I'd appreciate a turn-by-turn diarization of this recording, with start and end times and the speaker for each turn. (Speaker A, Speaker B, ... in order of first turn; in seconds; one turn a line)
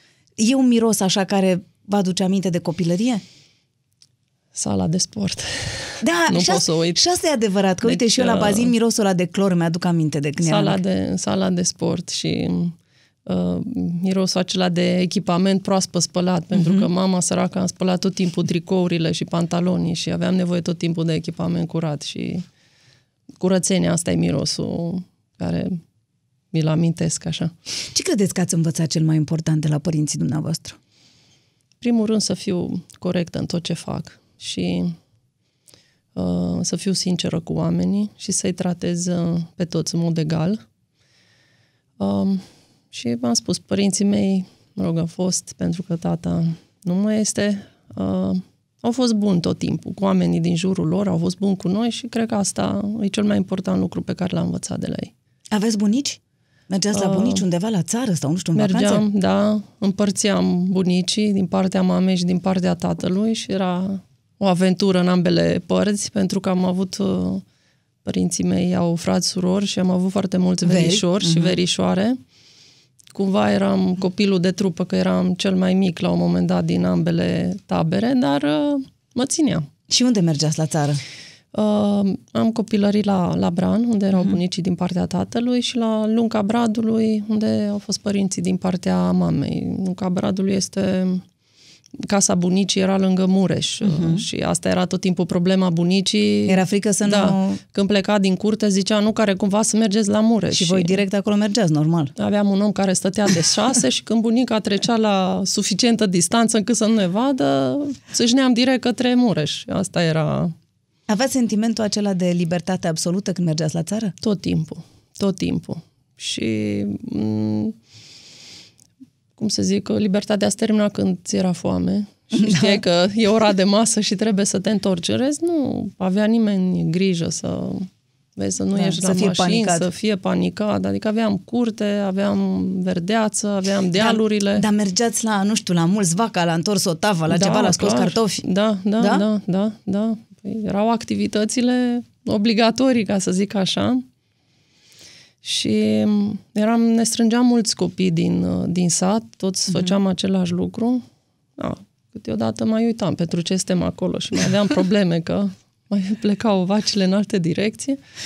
Speaker A: 0.4-3.2
Speaker B: 4.5-7.0
Speaker A: 6.0-10.8
Speaker B: 7.8-8.7
Speaker B: 10.4-12.7
Speaker B: 13.3-22.4
Speaker A: 16.5-16.9
Speaker B: 23.4-25.8
Speaker B: 26.5-27.5
Speaker A: 27.9-30.8
Speaker B: 31.8-34.9
Speaker B: 36.1-40.6
Speaker B: 42.0-55.1
Speaker A: 55.5-56.2
Speaker A: 56.7-59.0
Speaker B: 56.9-57.4
Speaker B: 58.6-67.4
Speaker B: 68.0-72.2
Speaker A: 70.6-71.6
Speaker B: 73.1-79.7
Speaker A: 79.9-81.0
Speaker B: 81.5-91.2
Speaker B: 92.0-101.0
Speaker A: 93.8-94.2
Speaker A: 96.5-97.6
Speaker A: 100.5-102.1
Speaker B: 102.2-110.5
Speaker A: 111.1-114.1
Speaker B: 114.2-117.8
Speaker B: 119.4-134.7
Speaker A: 122.3-122.8
Speaker A: 128.8-129.9
Speaker A: 133.9-138.4
Speaker B: 137.3-144.0
Speaker B: 145.4-151.0
Speaker B: 151.6-158.0